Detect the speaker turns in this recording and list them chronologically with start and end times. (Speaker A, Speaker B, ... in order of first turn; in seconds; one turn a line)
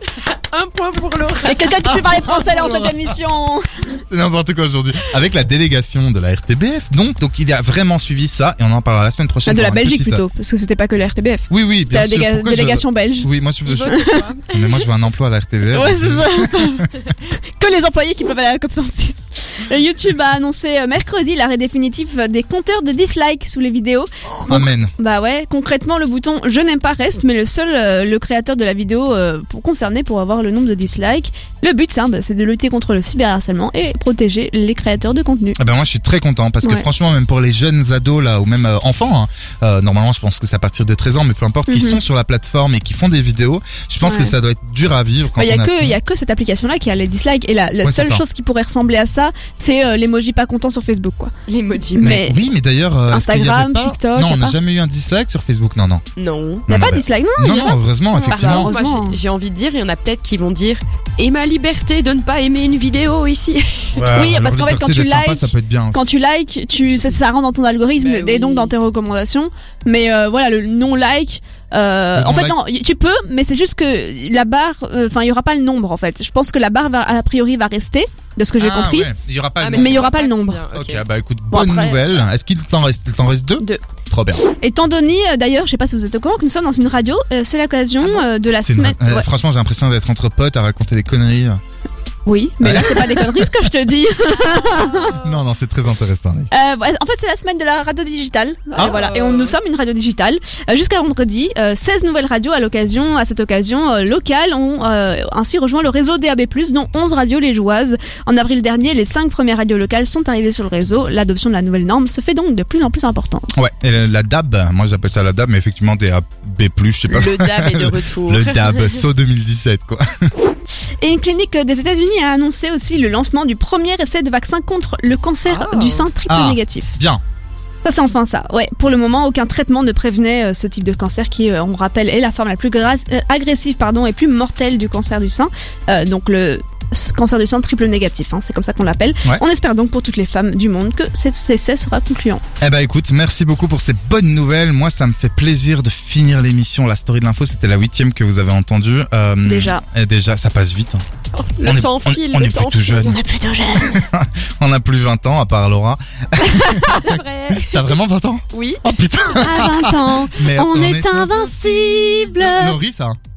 Speaker A: 0.2-1.7
Speaker B: 1.4-3.9
Speaker C: 1.8-3.2
Speaker C: 3.9-10.2
Speaker B: 9.4-13.3
Speaker C: 11.5-16.9
Speaker A: 13.7-14.9
Speaker B: 13.8-14.2
Speaker B: 15.7-35.6
Speaker C: 24.4-24.9
Speaker C: 35.6-46.0
Speaker B: 41.7-42.0
Speaker B: 44.0-44.4
Speaker B: 45.4-51.3
Speaker C: 47.8-48.2
Speaker A: 51.5-52.2
Speaker B: 52.0-52.4
Speaker C: 52.0-56.0
Speaker B: 53.1-54.6
Speaker A: 56.2-56.6
Speaker C: 56.7-58.7
Speaker B: 56.7-59.2
Speaker A: 58.2-64.0
Speaker C: 64.0-66.0
Speaker B: 64.1-79.1
Speaker A: 68.0-68.7
Speaker C: 72.1-72.6
Speaker C: 78.6-80.1
Speaker A: 79.6-81.0
Speaker B: 79.7-80.6
Speaker C: 80.7-84.4
Speaker B: 81.5-82.2
Speaker B: 84.6-89.3
Speaker C: 88.6-91.6
Speaker B: 92.3-95.2
Speaker C: 92.6-93.7
Speaker A: 94.6-95.4
Speaker C: 95.0-96.5
Speaker B: 96.5-113.6
Speaker A: 98.8-99.6
Speaker C: 113.6-120.3
Speaker A: 117.1-119.0
Speaker B: 121.0-127.0
Speaker A: 125.5-126.1
Speaker C: 126.3-127.2
Speaker B: 127.8-142.4
Speaker C: 142.6-151.0
Speaker B: 149.4-149.8
Speaker A: 151.3-153.2
Speaker C: 151.6-153.2
Speaker B: 153.1-154.0
Speaker C: 153.8-163.2
Speaker A: 156.6-157.9
Speaker B: 156.8-157.1
Speaker A: 158.5-158.8
Speaker B: 159.4-162.8